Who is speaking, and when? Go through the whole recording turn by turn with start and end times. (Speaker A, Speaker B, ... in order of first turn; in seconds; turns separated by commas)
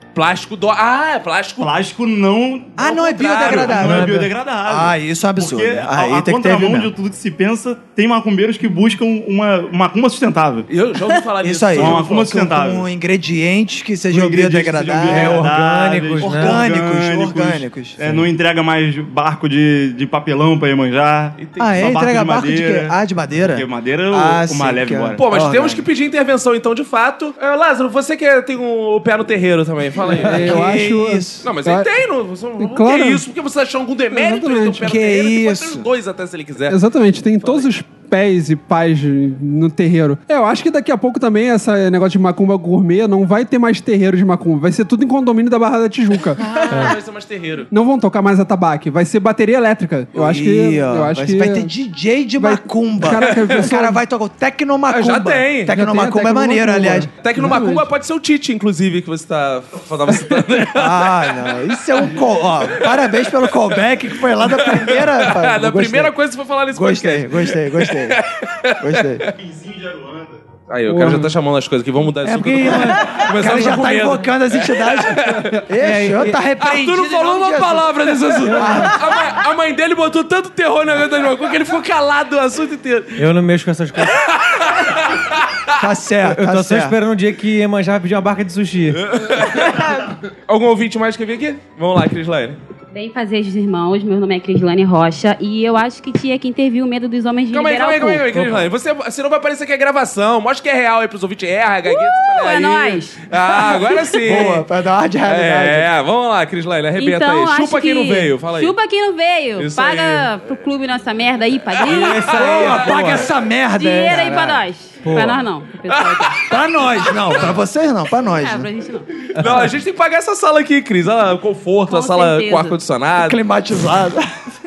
Speaker A: 0.1-1.7, Speaker B: 1.6-10.7, Speaker C: 2.8-6.9, Speaker A: 2.9-3.8, Speaker D: 3.7-4.3, Speaker A: 10.7-12.4, Speaker C: 11.4-15.5, Speaker B: 11.8-12.9, Speaker B: 14.1-25.2, Speaker D: 15.1-16.6, Speaker C: 16.2-18.0, Speaker A: 21.4-21.9, Speaker C: 21.6-25.9, Speaker A: 25.2-30.6, Speaker E: 30.1-31.9, Speaker C: 30.3-31.4, Speaker A: 31.4-36.8, Speaker E: 32.6-33.2, Speaker E: 34.1-34.9, Speaker C: 34.8-35.9, Speaker E: 36.7-46.4, Speaker A: 46.4-47.7, Speaker E: 47.7-51.7, Speaker C: 50.1-57.1, Speaker E: 52.4-54.0, Speaker A: 53.1-53.6, Speaker A: 54.9-55.7, Speaker E: 55.7-57.9, Speaker A: 57.2-62.1, Speaker C: 60.7-66.1, Speaker A: 62.8-63.5, Speaker A: 64.4-69.3, Speaker C: 66.7-68.2, Speaker C: 68.8-69.2, Speaker B: 69.4-70.5, Speaker A: 70.7-75.6, Speaker E: 70.9-71.3, Speaker C: 72.2-79.1, Speaker D: 72.2-73.7, Speaker D: 75.7-76.4, Speaker A: 76.6-83.3, Speaker D: 78.5-78.9, Speaker D: 83.2-84.2, Speaker A: 84.1-85.4, Speaker C: 85.8-87.0, Speaker D: 86.3-89.0, Speaker A: 89.0-92.6, Speaker F: 92.9-98.3, Speaker A: 97.5-104.7, Speaker D: 98.3-98.6, Speaker F: 101.8-103.2, Speaker C: 104.2-105.9, Speaker A: 105.3-108.8, Speaker F: 107.0-112.4, Speaker A: 109.6-110.3, Speaker A: 111.8-113.3, Speaker D: 111.9-113.3, Speaker C: 112.3-114.6, Speaker F: 113.7-116.5, Speaker D: 114.1-114.5, Speaker D: 115.0-115.5, Speaker A: 115.9-116.5, Speaker C: 116.5-118.7, Speaker A: 117.1-117.5, Speaker F: 118.2-119.1, Speaker A: 119.3-123.4, Speaker D: 119.4-119.8, Speaker F: 121.9-122.8, Speaker C: 123.2-124.3